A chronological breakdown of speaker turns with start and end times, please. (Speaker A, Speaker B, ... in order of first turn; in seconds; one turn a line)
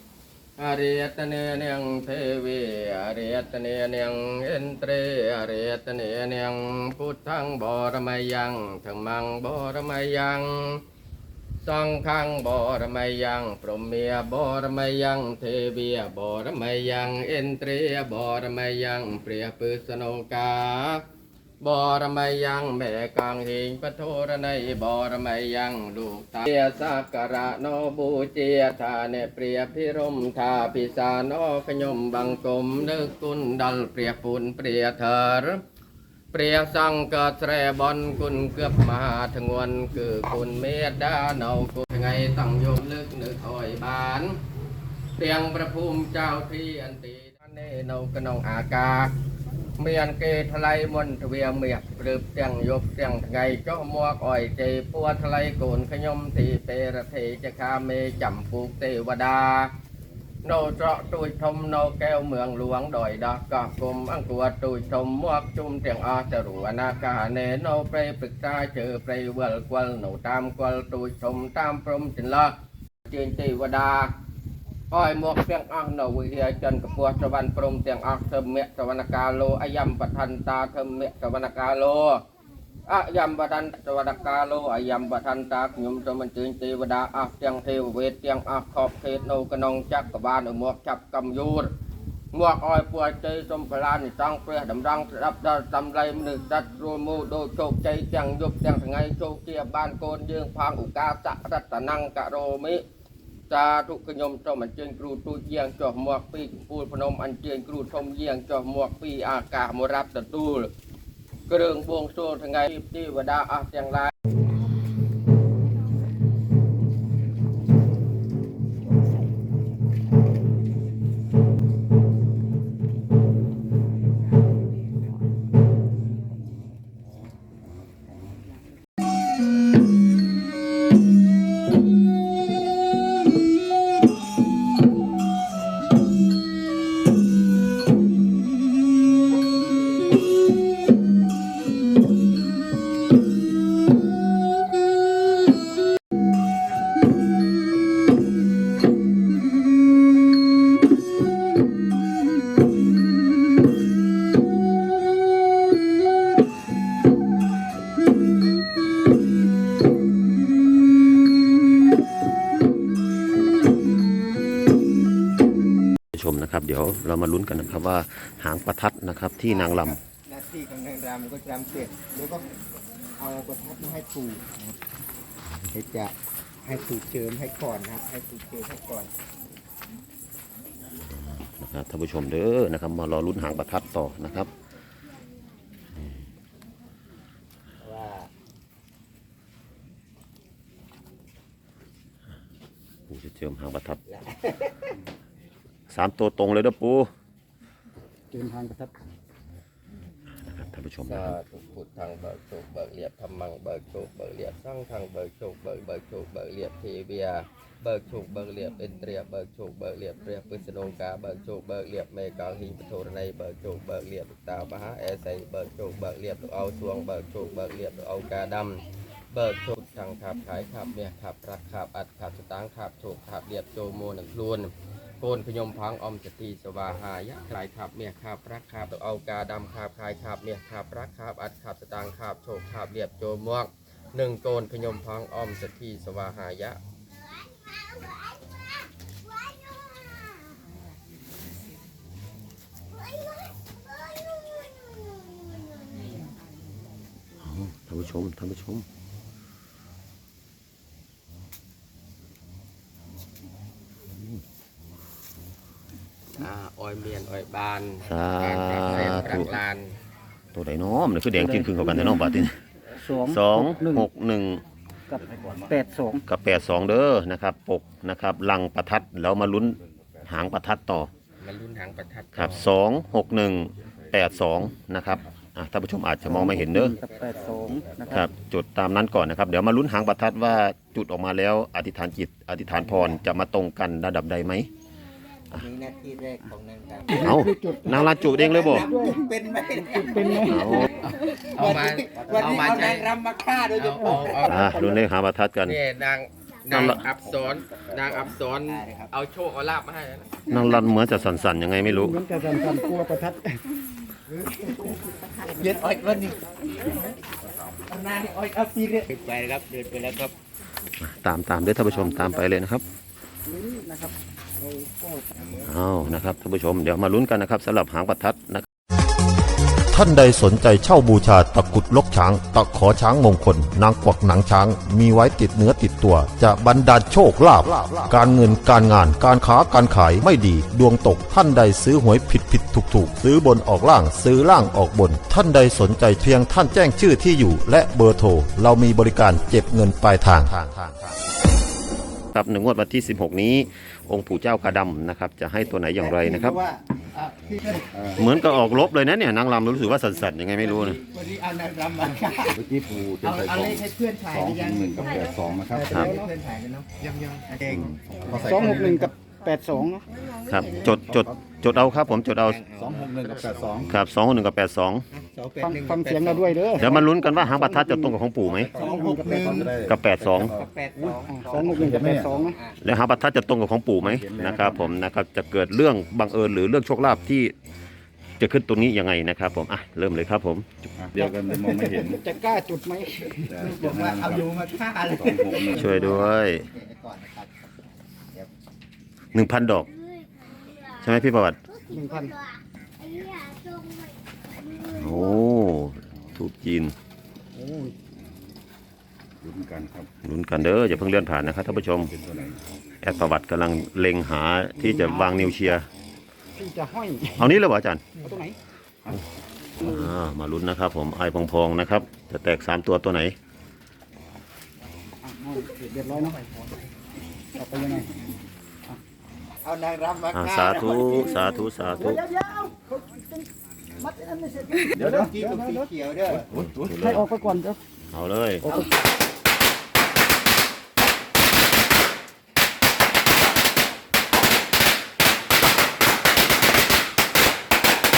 Speaker A: 0.6-10.8
Speaker A: 11.6-21.0
Speaker A: 21.6-35.6
Speaker A: 36.3-44.4
Speaker A: 45.2-49.1
Speaker A: 49.8-59.7
Speaker A: 60.4-72.5
Speaker A: 73.0-74.1
Speaker A: 74.9-82.2
Speaker A: 82.9-91.7
Speaker A: 92.3-102.8
Speaker A: 103.5-110.7
Speaker A: 111.5-114.1
Speaker B: 166.1-170.0
Speaker C: 169.5-172.5
Speaker C: 173.2-174.6
Speaker C: 175.7-179.1
Speaker B: 181.0-184.5
Speaker C: 187.8-188.3
Speaker B: 193.1-194.0
Speaker C: 194.1-194.9
Speaker B: 195.9-197.1
Speaker D: 198.3-198.9
Speaker B: 200.4-201.3
Speaker A: 201.0-236.8
Speaker B: 247.4-248.8
Speaker A: 256.4-259.9
Speaker B: 258.0-259.5
Speaker B: 260.5-262.6
Speaker D: 261.3-262.3
Speaker D: 262.9-264.1
Speaker B: 263.1-264.6
Speaker D: 265.1-266.2
Speaker E: 265.1-265.8
Speaker B: 266.2-271.1
Speaker E: 269.8-270.3
Speaker A: 271.4-272.7
Speaker B: 272.3-277.0
Speaker E: 273.8-274.5
Speaker D: 276.2-278.3
Speaker C: 276.8-278.3
Speaker B: 278.1-284.7
Speaker C: 285.5-294.6
Speaker D: 287.1-288.1
Speaker B: 287.1-288.9
Speaker D: 288.7-291.1
Speaker B: 290.4-290.9
Speaker A: 291.4-293.1
Speaker A: 293.7-294.8
Speaker D: 294.0-294.9
Speaker B: 294.4-295.8
Speaker A: 295.6-300.4
Speaker B: 296.7-297.1
Speaker C: 298.6-299.1
Speaker B: 300.5-302.2
Speaker C: 300.5-300.8
Speaker D: 301.8-303.6
Speaker C: 304.2-306.9
Speaker C: 307.8-310.3
Speaker B: 311.0-312.8
Speaker D: 311.7-312.5
Speaker D: 313.4-315.6
Speaker B: 315.6-318.6
Speaker F: 319.9-340.6
Speaker B: 340.4-341.1
Speaker B: 342.3-346.6
Speaker C: 345.8-348.7
Speaker E: 347.9-348.2
Speaker B: 348.1-351.0
Speaker C: 350.6-352.6
Speaker E: 352.4-355.9
Speaker C: 353.2-359.1
Speaker D: 355.9-356.3
Speaker B: 357.7-358.0
Speaker D: 358.2-360.1
Speaker C: 360.1-361.0
Speaker B: 360.4-362.6
Speaker E: 361.0-361.3
Speaker C: 361.7-363.3
Speaker E: 362.8-363.9
Speaker A: 363.2-363.9
Speaker B: 363.8-365.1
Speaker C: 365.1-367.0
Speaker D: 365.6-368.2
Speaker B: 366.8-368.7
Speaker C: 368.6-369.9
Speaker E: 368.7-370.7
Speaker D: 368.8-369.5
Speaker B: 369.9-370.5
Speaker C: 370.4-372.8
Speaker D: 371.0-372.6
Speaker E: 371.5-372.5
Speaker B: 372.8-377.5
Speaker E: 374.0-375.0
Speaker B: 378.4-380.9
Speaker E: 381.0-382.2
Speaker C: 381.2-382.1
Speaker D: 382.1-383.6
Speaker E: 383.5-384.6
Speaker C: 383.6-387.6
Speaker E: 385.1-385.9
Speaker B: 385.7-386.7
Speaker B: 389.3-389.9
Speaker B: 390.8-391.6
Speaker D: 391.9-392.4
Speaker B: 394.7-396.9
Speaker D: 397.5-398.0
Speaker E: 399.4-400.1
Speaker B: 400.2-402.1
Speaker E: 400.8-402.7
Speaker B: 403.0-405.9
Speaker D: 404.8-405.8
Speaker D: 406.5-407.5
Speaker B: 407.3-408.1
Speaker D: 408.1-408.6
Speaker B: 409.8-413.4
Speaker D: 409.8-410.1
Speaker D: 415.2-416.3
Speaker D: 417.5-418.2
Speaker C: 419.6-421.4
Speaker B: 420.3-422.2
Speaker D: 421.4-423.5
Speaker D: 424.0-425.9
Speaker C: 424.8-426.5
Speaker E: 425.0-425.3
Speaker E: 426.3-426.9
Speaker B: 426.5-427.3
Speaker D: 426.9-427.8
Speaker B: 428.1-428.7
Speaker D: 428.6-428.9